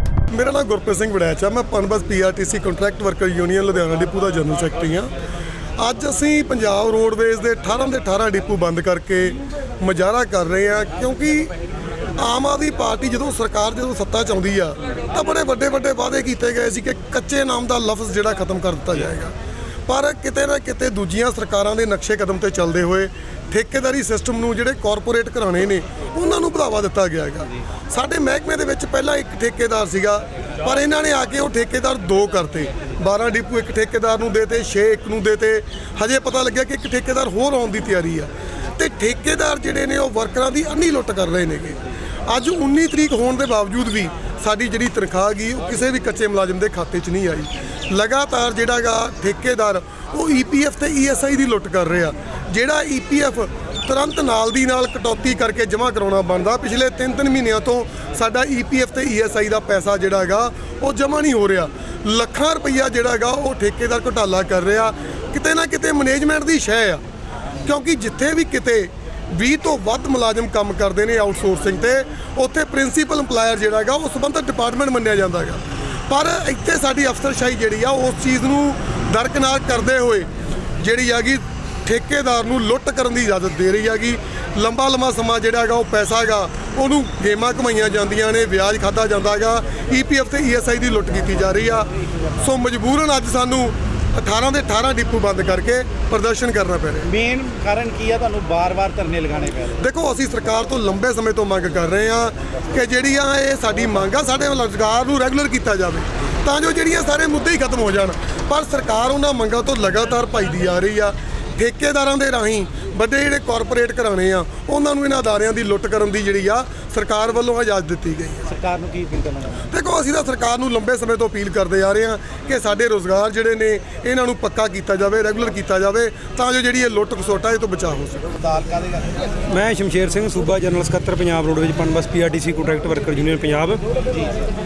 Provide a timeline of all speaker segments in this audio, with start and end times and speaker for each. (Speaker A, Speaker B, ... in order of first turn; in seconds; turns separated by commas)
Speaker A: 0.3-5.1, Speaker A: 5.8-11.5, Speaker A: 12.2-19.3, Speaker A: 19.9-67.0, Speaker A: 67.7-80.3, Speaker A: 80.8-97.1, Speaker B: 97.1-99.8, Speaker A: 99.8-118.5, Speaker B: 118.5-119.6, Speaker A: 119.7-128.3, Speaker B: 128.3-129.2, Speaker C: 129.5-133.8, Speaker B: 134.1-134.4